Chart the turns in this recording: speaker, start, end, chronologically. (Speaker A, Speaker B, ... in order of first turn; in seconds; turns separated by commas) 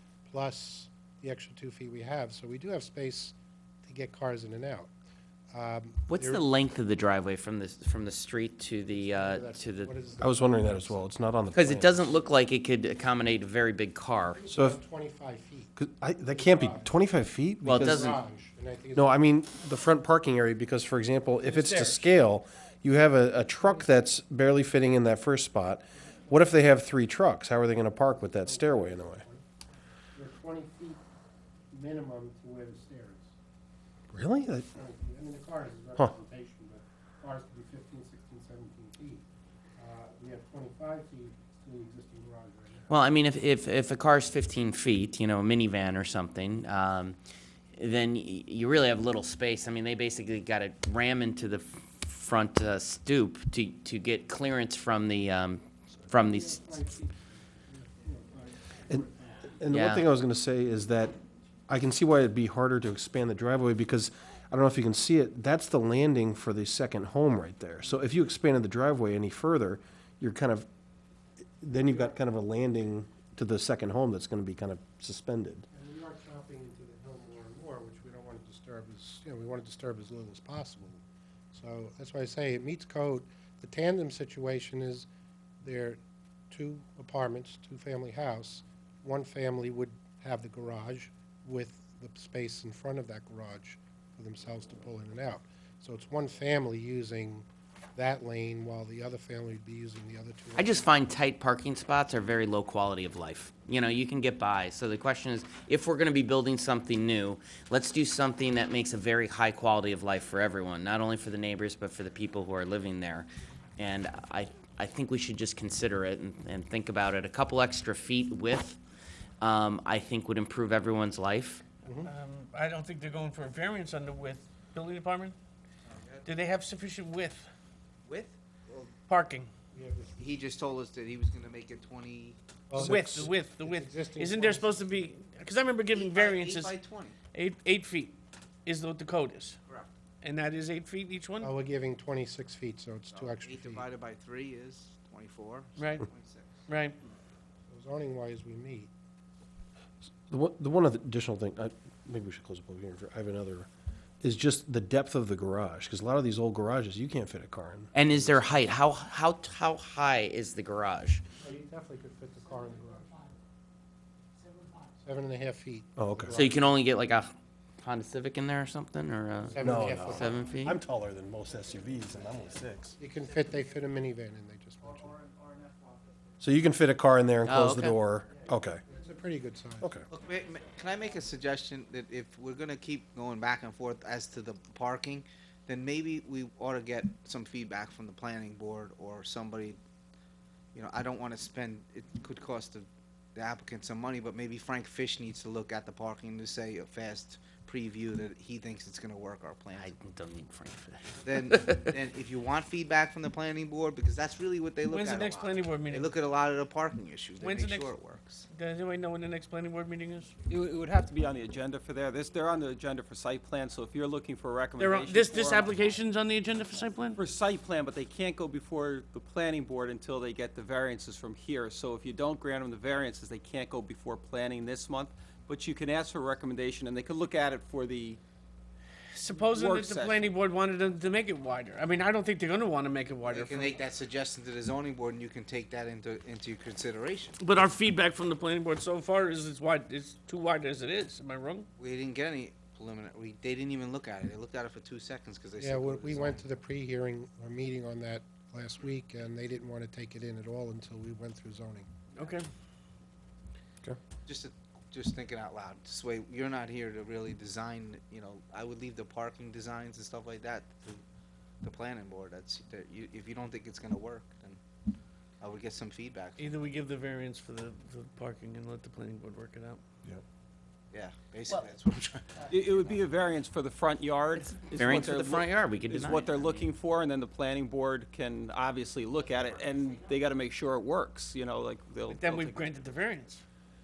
Speaker A: 0.2-4.9, Speaker A: 5.5-6.5, Speaker B: 6.1-9.9, Speaker A: 8.9-11.1, Speaker C: 10.2-12.1, Speaker B: 11.5-14.5, Speaker A: 14.4-15.7, Speaker C: 14.5-14.8, Speaker C: 15.8-18.2, Speaker A: 16.3-16.9, Speaker B: 17.6-18.2, Speaker A: 17.8-19.2, Speaker C: 19.0-29.2, Speaker D: 21.4-22.1, Speaker A: 28.2-29.4, Speaker A: 30.1-31.0, Speaker A: 31.7-33.3, Speaker C: 34.1-34.7, Speaker A: 34.7-39.2, Speaker A: 39.8-43.0, Speaker B: 42.9-47.2, Speaker B: 47.8-56.8, Speaker A: 56.1-59.7, Speaker C: 59.6-70.7, Speaker B: 59.7-60.1, Speaker C: 71.6-75.7, Speaker A: 71.9-72.1, Speaker A: 75.7-81.0, Speaker A: 81.5-85.1, Speaker A: 85.6-100.9, Speaker B: 100.6-118.8, Speaker B: 119.4-121.6, Speaker A: 121.8-122.1, Speaker D: 122.1-125.4, Speaker E: 125.8-126.3, Speaker D: 126.2-127.5, Speaker E: 128.1-128.9, Speaker D: 129.1-129.5, Speaker A: 129.7-130.3, Speaker E: 130.2-132.4, Speaker A: 132.7-135.2, Speaker C: 132.8-133.3, Speaker D: 132.8-136.8, Speaker E: 135.9-137.2, Speaker D: 137.3-138.2, Speaker D: 138.7-139.6, Speaker E: 139.7-139.9, Speaker D: 140.2-141.5, Speaker A: 141.4-143.9, Speaker E: 143.1-146.7, Speaker D: 145.8-146.1, Speaker D: 146.7-147.0, Speaker A: 147.7-148.9, Speaker C: 150.3-153.7, Speaker C: 154.2-158.5, Speaker B: 157.9-161.2, Speaker A: 161.4-163.3, Speaker A: 165.0-166.7, Speaker C: 166.0-166.5, Speaker B: 166.3-170.8, Speaker A: 169.5-170.4, Speaker C: 169.6-173.0, Speaker A: 173.0-175.2, Speaker E: 175.8-176.1, Speaker C: 176.4-178.8, Speaker B: 177.4-178.0, Speaker A: 178.9-179.9, Speaker C: 179.8-180.1, Speaker E: 180.1-189.8, Speaker E: 190.8-199.9, Speaker B: 199.8-202.0, Speaker E: 201.2-208.5, Speaker D: 204.9-206.1, Speaker D: 207.4-207.9, Speaker D: 208.5-210.3, Speaker F: 210.5-215.8, Speaker D: 214.8-217.2, Speaker F: 217.2-228.2, Speaker D: 229.1-233.8, Speaker F: 229.3-230.3, Speaker E: 233.2-237.4, Speaker D: 237.4-241.7, Speaker E: 241.8-246.4, Speaker A: 245.6-251.9, Speaker D: 252.2-252.5, Speaker E: 254.3-261.0, Speaker E: 261.6-264.6, Speaker E: 265.4-266.7, Speaker D: 266.4-269.8, Speaker E: 270.9-273.0, Speaker F: 272.5-282.8, Speaker B: 274.4-276.7, Speaker D: 282.1-283.4